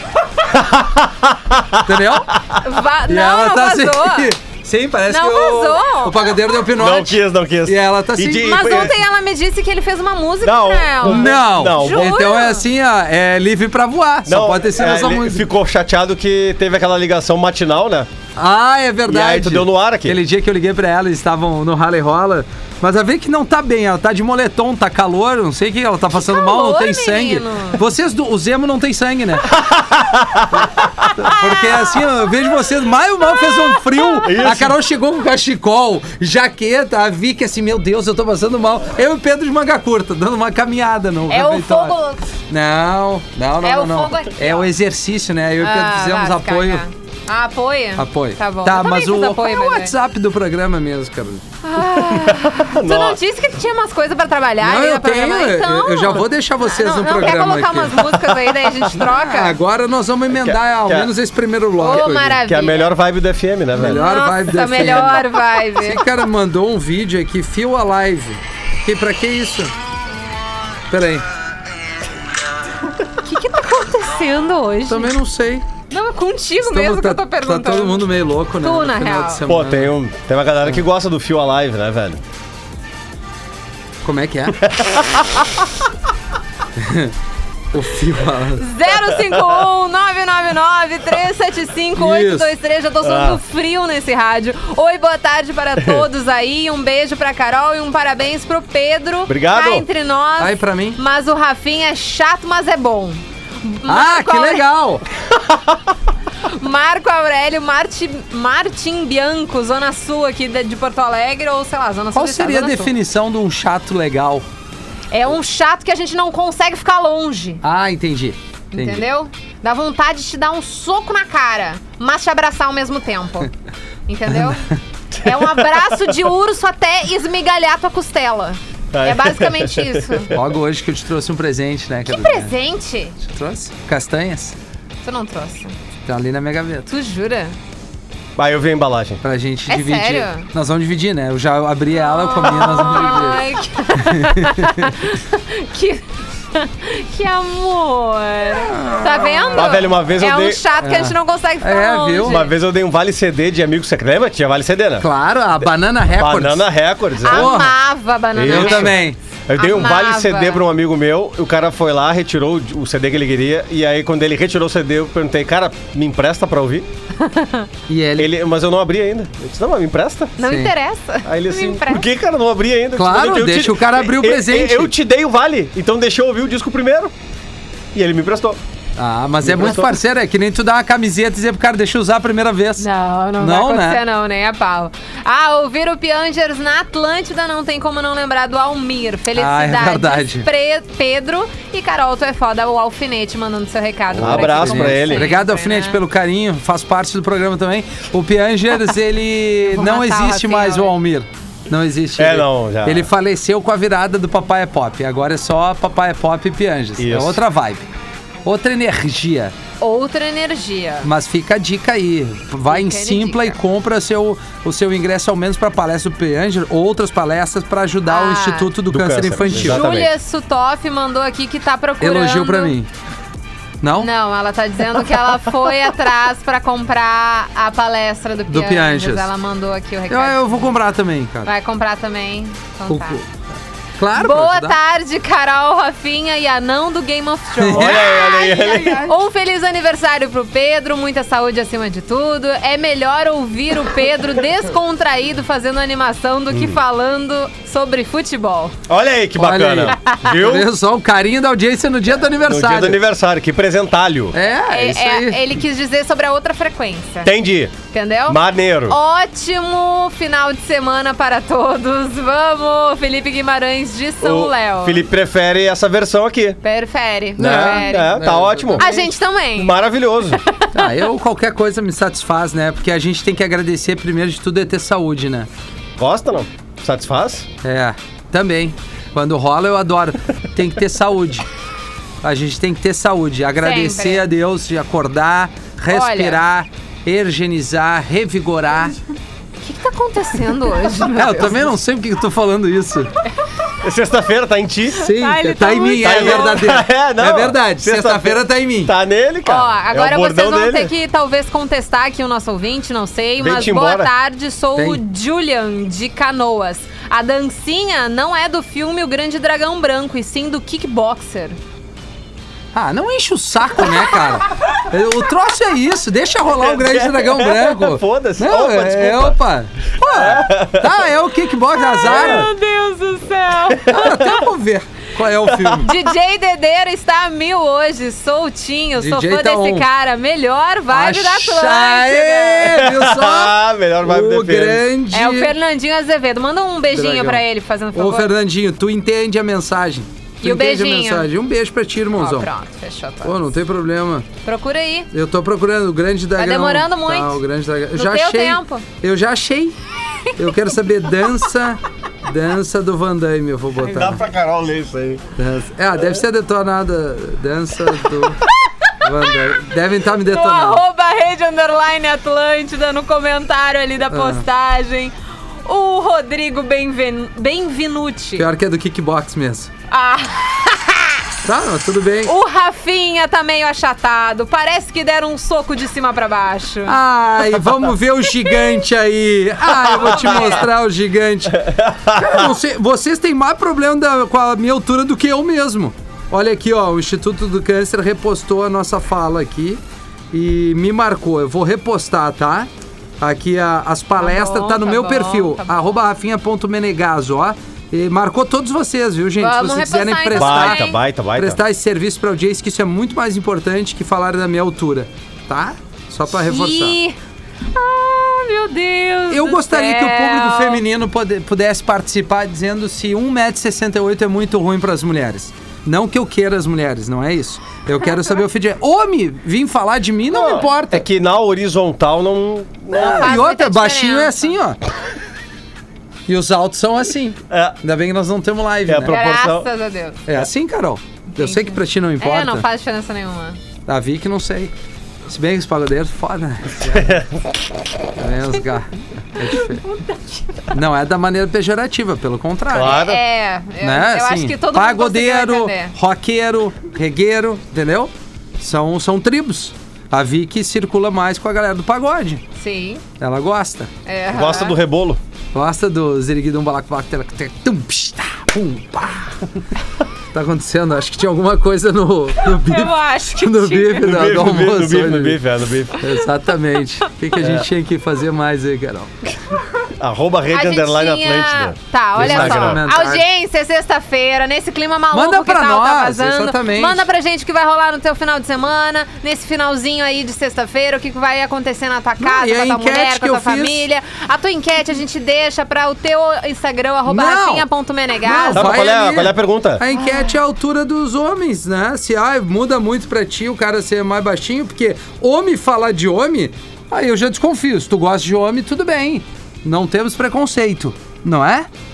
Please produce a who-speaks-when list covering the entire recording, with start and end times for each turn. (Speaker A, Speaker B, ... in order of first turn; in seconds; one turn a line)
Speaker A: 0.5-2.6
Speaker B: 1.8-2.4
Speaker C: 2.6-4.3
Speaker B: 3.1-8.9
Speaker C: 5.1-6.5
Speaker A: 6.7-8.9
Speaker C: 8.4-12.7
Speaker A: 10.4-12.1
Speaker B: 11.0-15.5
Speaker A: 14.2-18.1
Speaker B: 18.4-29.5
Speaker A: 19.1-20.2
Speaker C: 26.1-27.8
Speaker A: 29.7-30.4
Speaker B: 31.0-42.0
Speaker C: 31.4-31.8
Speaker C: 33.3-34.4
Speaker A: 34.2-34.7
Speaker C: 41.3-42.2
Speaker B: 42.5-46.8
Speaker C: 43.6-44.7
Speaker C: 45.6-49.9
Speaker B: 48.0-51.4
Speaker C: 51.6-59.5
Speaker A: 52.2-53.2
Speaker B: 54.6-58.3
Speaker B: 58.9-62.4
Speaker A: 60.3-61.1
Speaker C: 61.8-62.9
Speaker A: 62.3-64.0
Speaker B: 63.8-69.7
Speaker C: 63.9-66.0
Speaker B: 70.9-71.2
Speaker C: 73.2-75.1
Speaker B: 74.9-75.6
Speaker C: 75.9-79.4
Speaker B: 76.6-79.9
Speaker A: 79.5-82.2
Speaker B: 84.0-84.6
Speaker A: 84.6-85.2
Speaker B: 86.8-87.1
Speaker B: 87.7-88.7
Speaker C: 88.6-104.6
Speaker B: 91.9-92.5
Speaker A: 93.0-93.4
Speaker A: 99.3-99.8
Speaker B: 100.4-101.0
Speaker B: 103.8-105.0
Speaker C: 106.5-112.9
Speaker B: 112.1-114.4
Speaker C: 115.1-117.6
Speaker B: 117.6-119.0
Speaker C: 118.7-123.5
Speaker C: 124.1-124.7
Speaker C: 125.2-130.3
Speaker A: 125.2-125.9
Speaker A: 128.9-130.3
Speaker B: 130.3-132.5
Speaker C: 132.1-133.1
Speaker B: 133.2-134.6
Speaker C: 135.0-135.7
Speaker B: 136.1-136.9
Speaker C: 136.9-137.5
Speaker A: 138.3-139.2
Speaker B: 139.2-143.4
Speaker C: 139.7-140.5
Speaker C: 141.9-152.5
Speaker B: 144.0-145.0
Speaker B: 148.7-149.7
Speaker A: 149.5-150.6
Speaker B: 150.8-152.4
Speaker A: 152.2-155.1
Speaker B: 155.0-156.7
Speaker A: 156.1-157.6
Speaker C: 157.2-159.0
Speaker B: 157.2-157.8
Speaker A: 158.3-166.8
Speaker B: 158.4-159.2
Speaker C: 159.6-160.6
Speaker C: 167.2-167.7
Speaker B: 167.9-168.3
Speaker A: 168.2-170.3
Speaker C: 170.4-172.0
Speaker B: 170.4-170.7
Speaker A: 171.2-177.1
Speaker B: 172.9-174.9
Speaker A: 177.9-178.6
Speaker B: 179.0-184.0
Speaker A: 179.4-179.9
Speaker C: 182.8-196.0
Speaker B: 189.3-190.5
Speaker A: 194.1-195.3
Speaker B: 194.2-207.9
Speaker C: 199.7-200.9
Speaker A: 202.2-203.1
Speaker A: 207.0-207.4
Speaker B: 208.4-209.5
Speaker C: 209.8-211.1
Speaker B: 211.0-219.9
Speaker C: 212.7-213.6
Speaker C: 218.1-218.7
Speaker A: 218.9-220.1
Speaker C: 219.5-222.8
Speaker B: 222.0-222.9
Speaker B: 223.8-224.1
Speaker C: 224.0-230.7
Speaker B: 228.5-229.3
Speaker B: 230.1-231.5
Speaker C: 231.4-233.2
Speaker B: 232.9-233.3
Speaker B: 234.0-234.8
Speaker C: 234.1-248.7
Speaker B: 237.6-239.1
Speaker A: 237.7-239.1
Speaker A: 246.5-246.8
Speaker A: 248.9-250.7
Speaker B: 249.4-253.0
Speaker A: 252.4-254.3
Speaker B: 254.3-255.4
Speaker C: 254.7-257.3
Speaker A: 257.2-259.0
Speaker C: 257.9-265.0
Speaker A: 264.2-266.6
Speaker C: 266.6-269.8
Speaker A: 267.4-269.0
Speaker B: 267.4-269.1
Speaker A: 269.5-270.4
Speaker C: 270.3-270.9
Speaker B: 270.7-275.5
Speaker A: 276.0-277.5
Speaker B: 277.6-281.5
Speaker B: 282.2-288.9
Speaker C: 283.6-284.3
Speaker C: 285.9-286.4
Speaker C: 289.6-291.7
Speaker B: 291.1-293.1
Speaker A: 293.8-295.1
Speaker B: 295.0-298.9
Speaker C: 295.1-296.6
Speaker A: 296.0-300.9
Speaker C: 299.4-311.6
Speaker A: 303.4-304.1
Speaker B: 304.7-305.0
Speaker B: 312.7-322.5
Speaker A: 316.5-319.4
Speaker A: 320.1-321.0
Speaker C: 321.7-324.4
Speaker A: 322.0-322.5
Speaker B: 323.9-325.9
Speaker C: 325.8-332.8
Speaker B: 329.0-329.9
Speaker B: 330.9-335.5
Speaker A: 332.6-334.9
Speaker C: 335.1-338.3
Speaker B: 336.9-342.5
Speaker C: 340.4-341.3
Speaker C: 342.2-343.5
Speaker B: 343.2-344.3
Speaker C: 344.4-345.1
Speaker B: 345.1-349.7
Speaker C: 346.4-347.4
Speaker C: 347.9-348.9
Speaker B: 350.4-354.2
Speaker A: 353.8-355.2
Speaker B: 355.4-358.4
Speaker B: 359.0-360.8
Speaker C: 360.2-365.1
Speaker B: 364.1-364.4
Speaker C: 365.6-368.5
Speaker B: 368.4-369.7
Speaker C: 369.9-371.2
Speaker B: 371.4-372.3
Speaker C: 372.2-377.0
Speaker B: 376.9-389.8
Speaker C: 378.3-378.8
Speaker C: 379.9-380.6
Speaker A: 381.6-382.4
Speaker B: 390.3-392.7
Speaker B: 393.2-407.0
Speaker C: 394.2-395.9
Speaker C: 399.4-401.0
Speaker A: 400.3-401.6
Speaker C: 406.3-407.1
Speaker C: 407.7-410.8
Speaker B: 409.3-421.0
Speaker A: 420.3-423.3
Speaker B: 422.9-424.8
Speaker C: 423.0-424.5
Speaker B: 426.3-429.2
Speaker A: 427.5-427.8
Speaker A: 428.9-429.7
Speaker C: 429.1-430.2
Speaker B: 430.3-432.7
Speaker C: 431.4-433.6
Speaker B: 433.9-434.7
Speaker B: 435.3-437.2
Speaker A: 436.9-437.4
Speaker B: 438.2-439.8
Speaker C: 439.5-440.5
Speaker B: 440.7-443.0
Speaker A: 442.7-443.2
Speaker C: 442.8-445.9
Speaker B: 443.8-452.4
Speaker C: 452.6-453.0
Speaker B: 453.2-453.9
Speaker C: 454.1-454.8
Speaker A: 454.3-455.2
Speaker B: 455.5-459.3
Speaker B: 460.3-465.4
Speaker C: 462.5-464.1
Speaker A: 464.0-465.9
Speaker B: 466.0-469.1
Speaker A: 467.4-467.6
Speaker A: 470.0-472.8
Speaker C: 470.5-488.8
Speaker B: 472.2-473.2
Speaker B: 475.1-477.1
Speaker B: 482.2-483.8
Speaker B: 487.1-487.7
Speaker B: 488.2-501.7
Speaker A: 488.5-489.8